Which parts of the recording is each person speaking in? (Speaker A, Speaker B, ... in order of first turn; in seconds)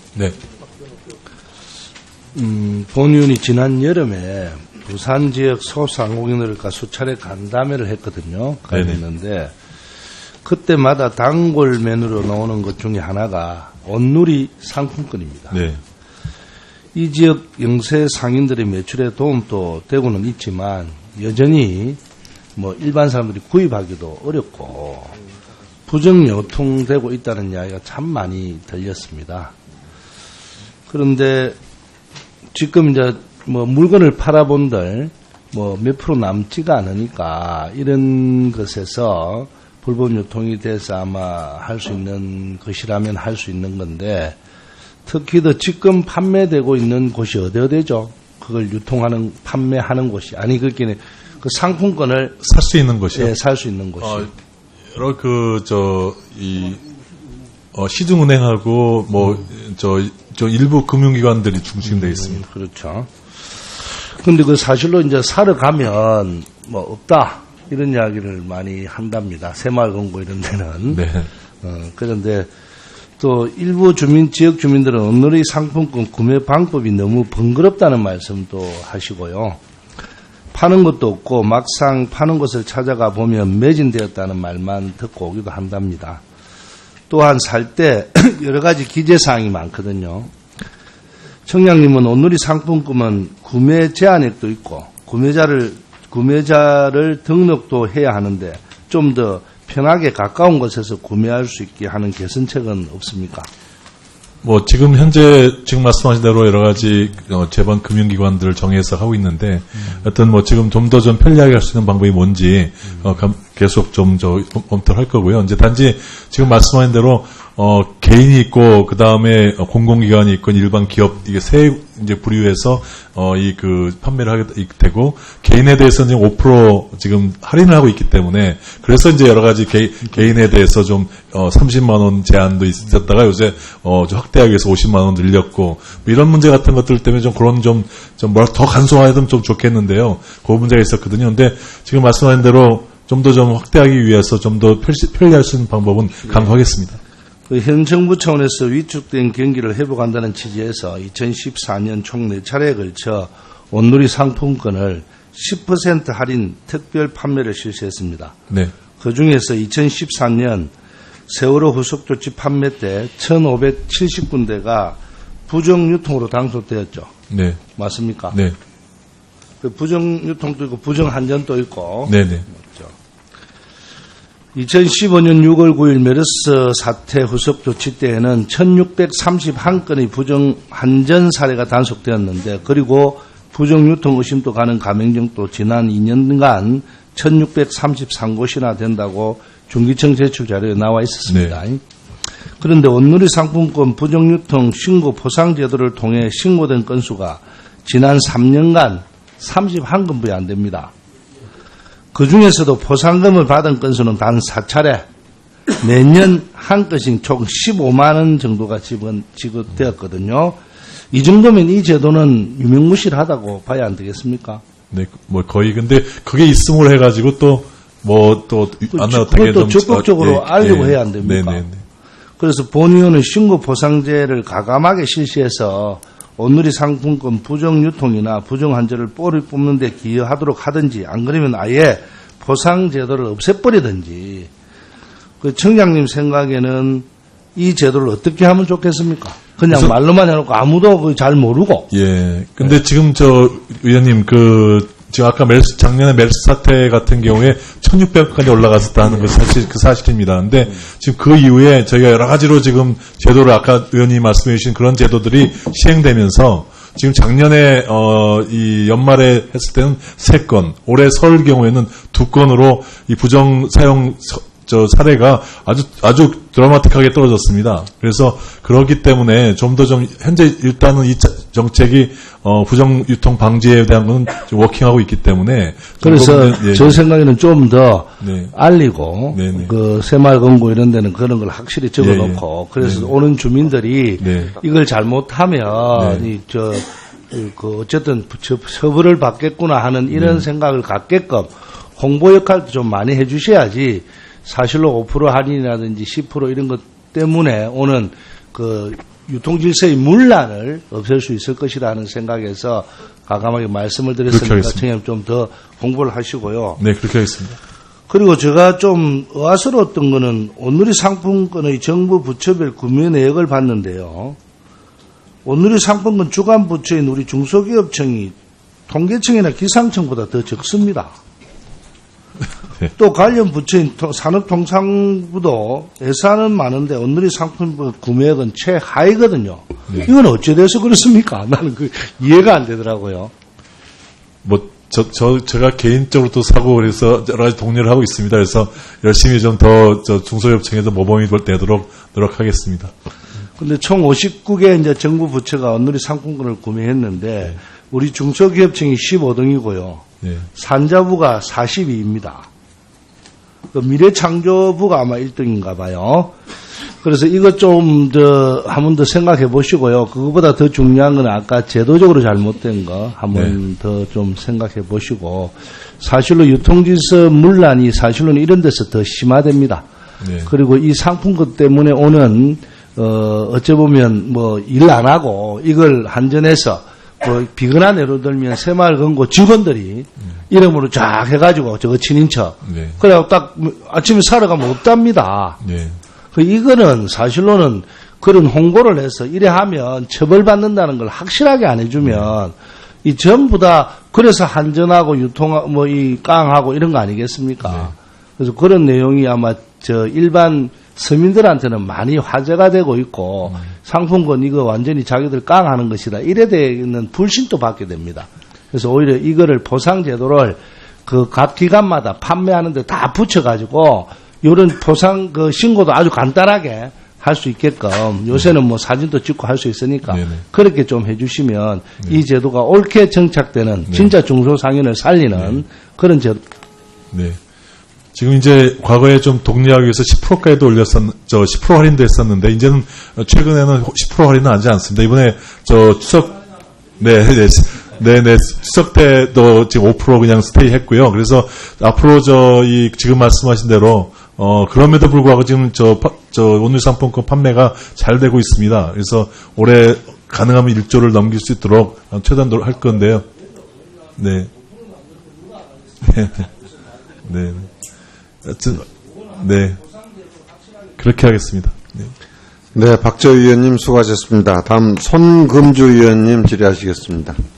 Speaker A: 2.3-9.5, 10.4-15.6, 16.9-22.0, 22.6-25.1, 25.9-29.5, 30.9-31.6, 32.5-44.4, 45.0-52.4, 53.1-54.3, 61.9-63.1, 63.8-71.0, 71.6-72.5, 73.2-79.6, 80.5-86.2, 87.1-90.3, 91.5-103.5, 147.5-158.4, 159.0-160.7, 161.3-167.1, 167.8-168.3, 169.6-172.9, 174.5-191.8, 192.6-200.9, 202.1-205.0, 205.8-210.6, 211.1-214.6, 218.9-221.6, 222.4-234.5, 235.4-241.9, 276.0-306.8, 308.1-314.4, 315.4-318.3, 318.9-321.1, 322.9-333.3, 343.6-350.0, 350.5-352.5, 353.7-356.3, 357.0-369.8, 370.4-385.6, 386.3-426.4
Speaker B: 8.7-9.0, 15.5-15.8, 52.4-53.3, 54.0-54.3, 54.9-56.8, 57.7-62.4, 70.9-71.3, 104.4-147.0, 167.3-167.6, 168.3-168.6, 172.1-172.4, 191.3-191.6, 214.9-221.8, 239.7-239.9, 241.9-277.0, 278.2-278.6, 279.3-279.7, 282.0-283.1, 284.2-284.5, 285.9-286.3, 290.1-290.4, 304.3-304.8, 306.8-307.6, 334.4-342.9, 350.2-350.5, 370.2-370.5, 382.6-383.0, 385.6-386.0, 392.0-392.3, 397.6-397.9, 420.1-420.4, 425.4-425.6, 427.1-427.4, 428.1-436.4, 437.0-453.2, 454.1-454.5, 456.0-456.5, 457.2-457.7, 458.4-459.8, 461.0-462.1
Speaker C: 462.7-467.4